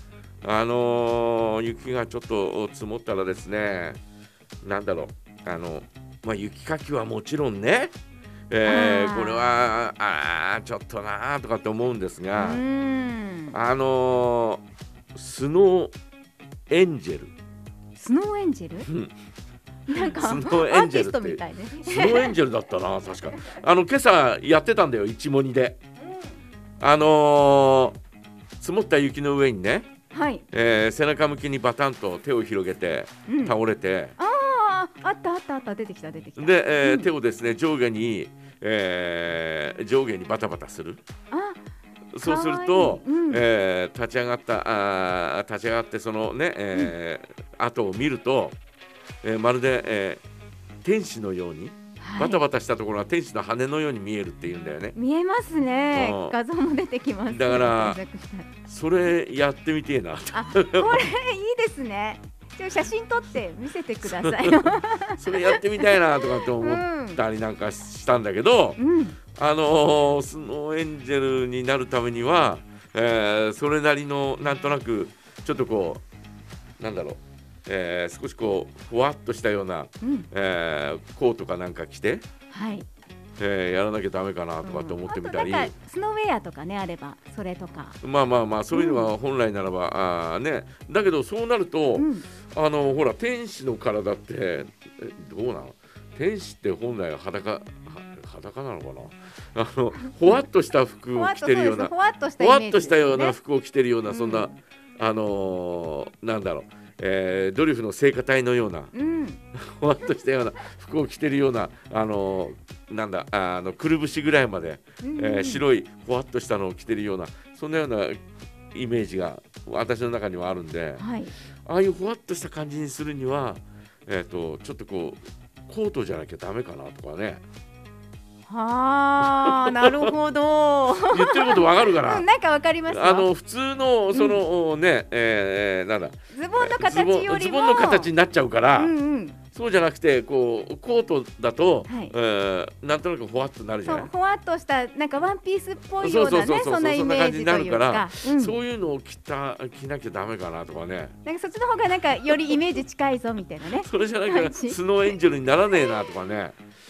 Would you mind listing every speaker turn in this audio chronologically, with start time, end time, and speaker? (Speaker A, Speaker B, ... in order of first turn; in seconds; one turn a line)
Speaker A: 0.4-4.0
Speaker A: 4.6-7.9
Speaker A: 8.5-12.6
Speaker B: 8.6-9.5
Speaker B: 12.3-13.6
Speaker A: 13.5-14.6
Speaker A: 15.1-15.9
Speaker A: 16.7-17.3
Speaker B: 17.9-18.9
Speaker A: 18.9-19.1
Speaker B: 19.9-22.4
Speaker A: 19.9-25.8
Speaker A: 26.8-28.0
Speaker A: 28.6-29.9
Speaker B: 30.1-30.4
Speaker A: 30.5-34.1
Speaker B: 33.3-33.5
Speaker B: 34.2-37.1
Speaker A: 36.4-41.0
Speaker B: 41.3-41.6
Speaker A: 42.1-48.6
Speaker B: 42.2-43.4
Speaker A: 49.2-50.2
Speaker A: 50.8-55.0
Speaker B: 52.0-52.4
Speaker B: 54.9-58.5
Speaker A: 55.9-56.3
Speaker A: 57.3-58.0
Speaker A: 58.6-61.1
Speaker B: 60.3-67.2
Speaker A: 64.0-68.8
Speaker B: 68.8-69.2
Speaker A: 69.3-76.0
Speaker A: 76.8-82.2
Speaker B: 80.0-80.3
Speaker B: 82.5-82.9
Speaker A: 83.4-85.7
Speaker B: 84.6-88.0
Speaker A: 88.0-108.9
Speaker B: 88.7-89.1
Speaker B: 91.9-92.3
Speaker B: 101.1-103.4
Speaker B: 104.1-104.5
Speaker B: 108.9-109.4
Speaker A: 109.5-118.2
Speaker B: 115.0-115.6
Speaker A: 118.7-121.0
Speaker B: 121.0-121.3
Speaker A: 121.6-127.4
Speaker B: 128.5-133.3
Speaker A: 129.4-130.1
Speaker A: 131.1-132.2
Speaker A: 132.9-138.9
Speaker B: 134.1-134.4
Speaker B: 136.3-138.1
Speaker B: 138.8-139.4
Speaker A: 139.5-144.1
Speaker B: 141.8-142.1
Speaker B: 143.9-148.6
Speaker A: 146.0-151.1
Speaker B: 151.2-155.1
Speaker A: 153.8-156.6